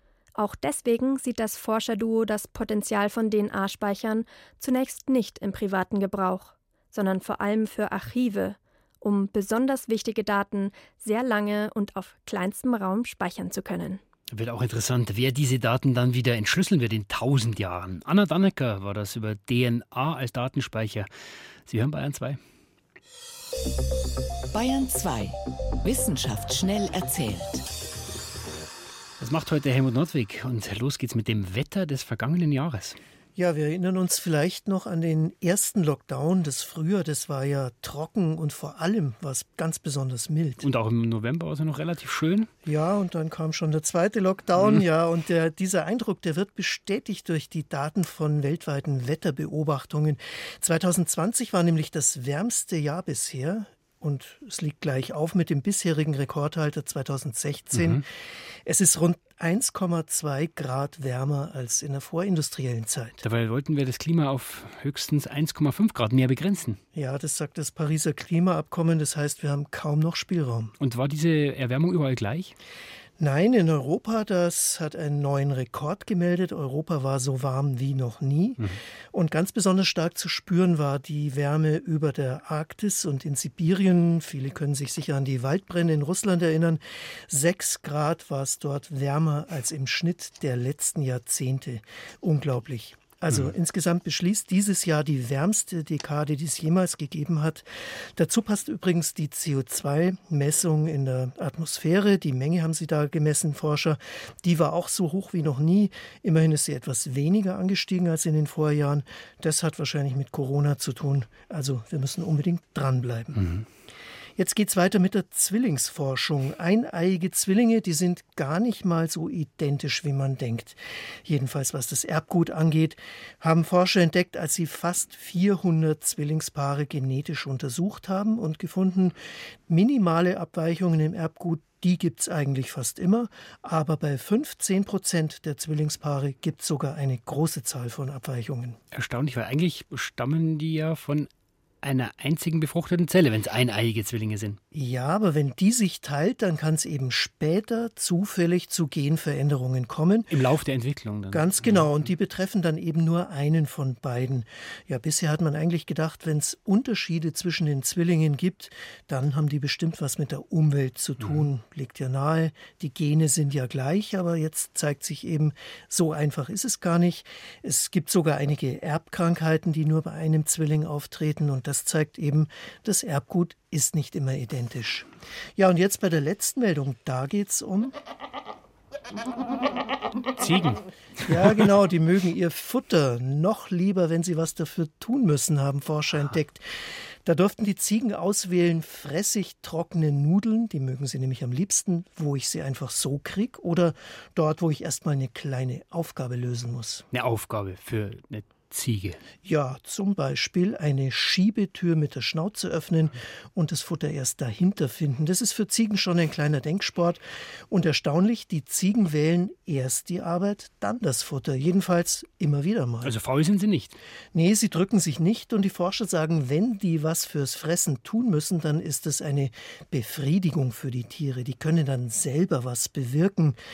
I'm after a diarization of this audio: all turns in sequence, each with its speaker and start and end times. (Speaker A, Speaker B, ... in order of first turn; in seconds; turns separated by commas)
Speaker A: 0.4-14.0, Speaker B: 14.3-21.1, Speaker B: 21.7-22.4, Speaker C: 24.5-27.6, Speaker B: 29.2-33.0, Speaker D: 33.4-40.6, Speaker B: 40.6-42.5, Speaker D: 42.6-58.0, Speaker B: 57.7-58.0, Speaker D: 58.6-63.2, Speaker B: 63.2-66.8, Speaker D: 66.9-70.7, Speaker B: 70.8-72.6, Speaker D: 73.2-113.4, Speaker B: 113.3-113.7, Speaker D: 114.4-129.2, Speaker D: 129.7-138.8, Speaker B: 138.9-141.3, Speaker B: 141.8-144.6, Speaker D: 144.7-150.3, Speaker B: 150.3-151.9, Speaker D: 151.3-177.9, Speaker B: 180.4-181.6, Speaker D: 181.2-197.1, Speaker B: 197.1-199.2, Speaker D: 199.4-213.2, Speaker B: 213.0-214.0, Speaker D: 214.3-223.6